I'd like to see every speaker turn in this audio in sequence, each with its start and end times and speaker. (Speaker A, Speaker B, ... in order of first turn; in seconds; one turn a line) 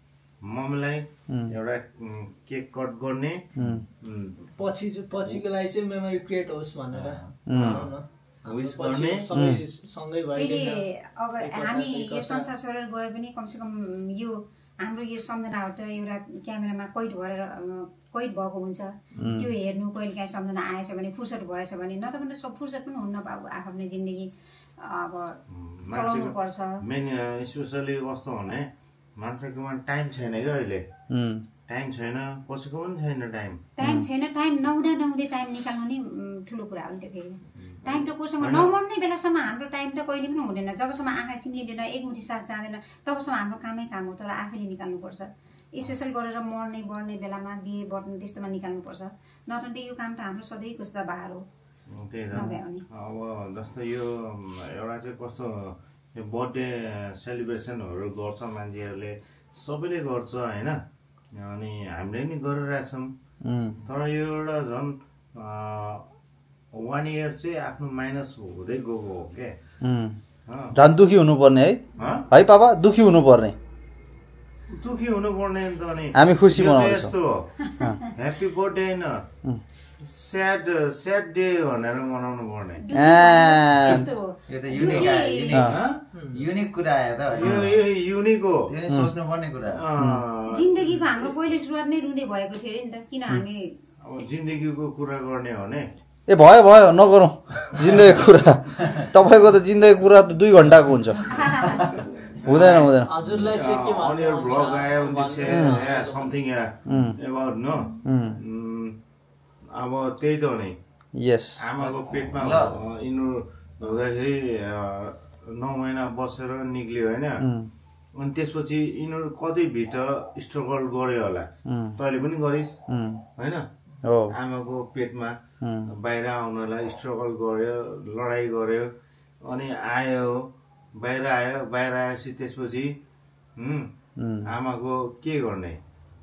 Speaker A: 0.4-3.4
Speaker B: 1.3-1.6
Speaker B: 3.6-3.9
Speaker A: 4.0-4.4
Speaker C: 4.6-10.9
Speaker A: 7.0-7.9
Speaker B: 7.5-7.8
Speaker A: 8.5-9.3
Speaker B: 9.3-9.6
Speaker D: 10.3-24.3
Speaker C: 11.4-12.5
Speaker B: 19.2-19.5
Speaker D: 24.8-25.4
Speaker A: 25.5-30.8
Speaker D: 25.9-26.8
Speaker B: 31.1-31.4
Speaker A: 31.7-33.6
Speaker D: 33.8-51.4
Speaker A: 37.6-38.7
Speaker A: 51.9-60.8
Speaker D: 52.3-52.8
Speaker A: 61.4-63.1
Speaker B: 63.4-63.8
Speaker A: 63.9-66.0
Speaker A: 66.7-69.5
Speaker B: 69.8-70.2
Speaker A: 70.5-70.7
Speaker B: 70.7-73.5
Speaker A: 72.0-72.3
Speaker A: 74.7-77.5
Speaker B: 76.2-77.1
Speaker D: 77.7-77.9
Speaker A: 78.1-79.2
Speaker A: 80.0-82.8
Speaker D: 82.8-85.6
Speaker B: 82.9-84.1
Speaker E: 84.5-87.8
Speaker B: 85.5-85.8
Speaker A: 85.6-86.0
Speaker A: 87.3-88.7
Speaker E: 88.7-89.9
Speaker B: 88.9-89.1
Speaker A: 89.7-91.3
Speaker B: 90.0-90.2
Speaker D: 90.5-93.7
Speaker A: 94.0-95.9
Speaker B: 96.3-103.1
Speaker D: 101.3-101.9
Speaker A: 102.4-109.0
Speaker C: 102.8-106.4
Speaker B: 105.5-105.8
Speaker B: 106.9-107.2
Speaker B: 108.0-108.4
Speaker A: 109.7-110.8
Speaker B: 111.2-111.7
Speaker A: 111.6-117.4
Speaker E: 111.8-112.7
Speaker B: 112.4-112.7
Speaker B: 117.4-117.7
Speaker A: 118.2-122.8
Speaker B: 121.7-122.0
Speaker B: 122.9-123.2
Speaker A: 123.4-123.7
Speaker B: 124.0-124.3
Speaker A: 124.3-125.4
Speaker B: 125.6-125.9
Speaker A: 125.9-128.9
Speaker A: 129.4-133.0
Speaker A: 133.6-133.9
Speaker B: 134.2-134.5
Speaker A: 134.5-135.8